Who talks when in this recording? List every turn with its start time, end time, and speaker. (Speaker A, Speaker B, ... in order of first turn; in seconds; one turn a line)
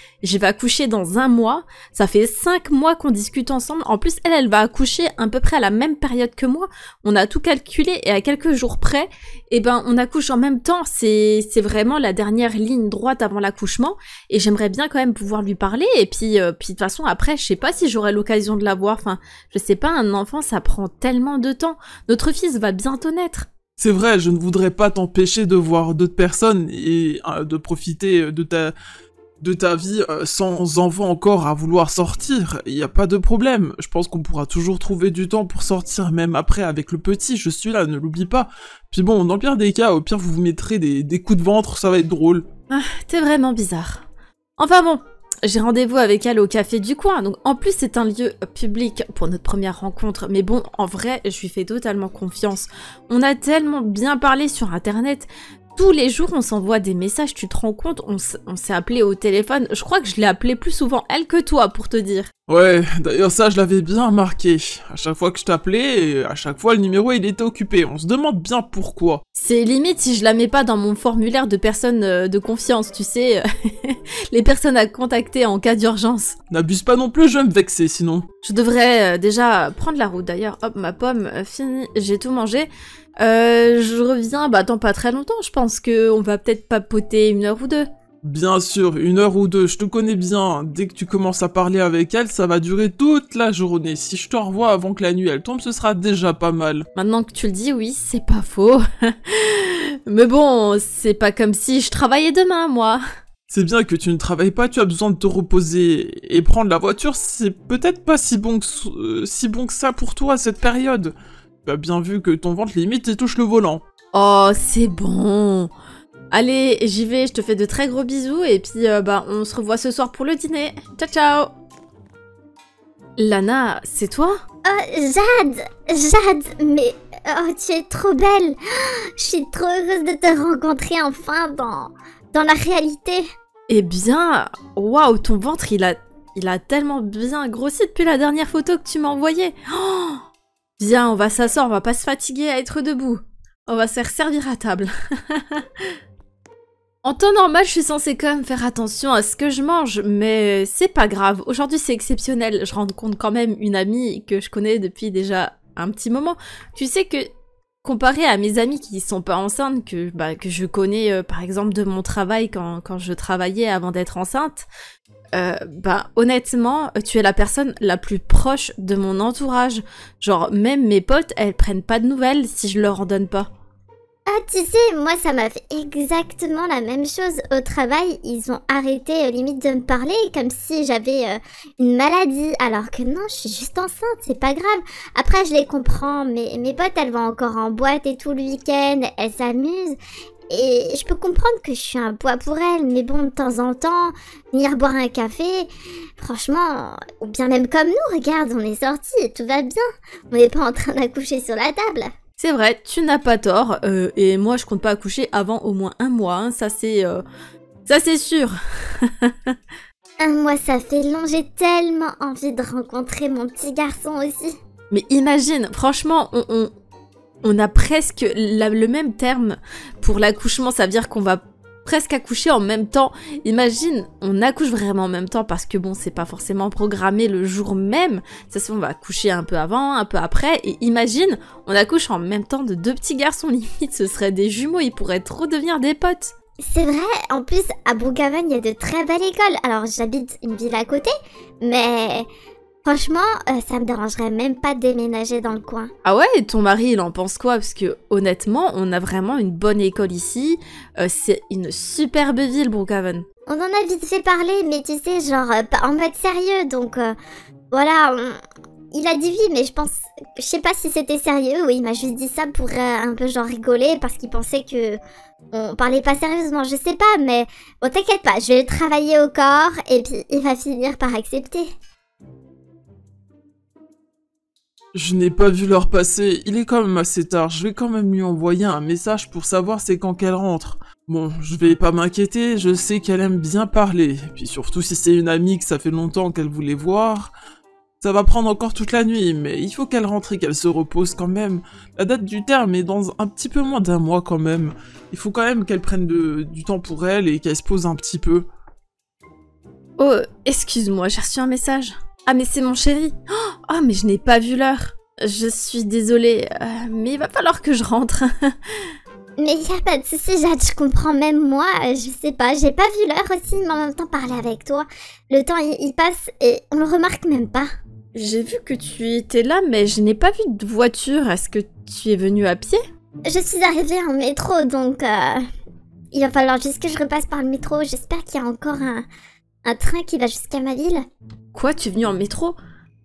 Speaker A: 0.2-23.5
Speaker B: 23.8-28.7
Speaker B: 29.4-42.5
Speaker A: 42.7-44.0
Speaker A: 44.6-62.3
Speaker B: 62.5-69.2
Speaker A: 69.4-76.3
Speaker B: 76.5-78.3
Speaker A: 78.4-82.7
Speaker A: 83.2-87.9
Speaker B: 88.2-96.9
Speaker A: 97.0-103.0
Speaker B: 103.5-111.1
Speaker B: 111.7-113.8
Speaker A: 114.1-115.7
Speaker A: 116.3-121.5
Speaker A: 123.2-124.4
Speaker C: 124.7-133.2
Speaker A: 133.7-140.2
Speaker A: 140.8-145.9
Speaker A: 147.0-157.3
Speaker A: 157.8-164.7
Speaker A: 165.3-173.5
Speaker C: 174.3-190.0
Speaker C: 190.5-195.7
Speaker C: 196.2-202.1
Speaker A: 202.4-207.2
Speaker A: 207.9-209.6
Speaker C: 210.2-214.5
Speaker A: 214.9-216.7
Speaker A: 217.4-236.3
Speaker C: 236.7-242.3
Speaker C: 242.8-245.9
Speaker A: 246.1-253.2
Speaker C: 253.5-257.1
Speaker C: 257.7-258.4
Speaker C: 258.9-265.0
Speaker C: 265.5-271.7
Speaker B: 274.9-287.3
Speaker B: 288.0-298.5
Speaker A: 300.0-308.9
Speaker C: 309.4-317.7
Speaker A: 318.1-322.8
Speaker C: 323.3-325.4
Speaker C: 326.1-329.1
Speaker C: 329.6-331.0
Speaker A: 331.5-332.6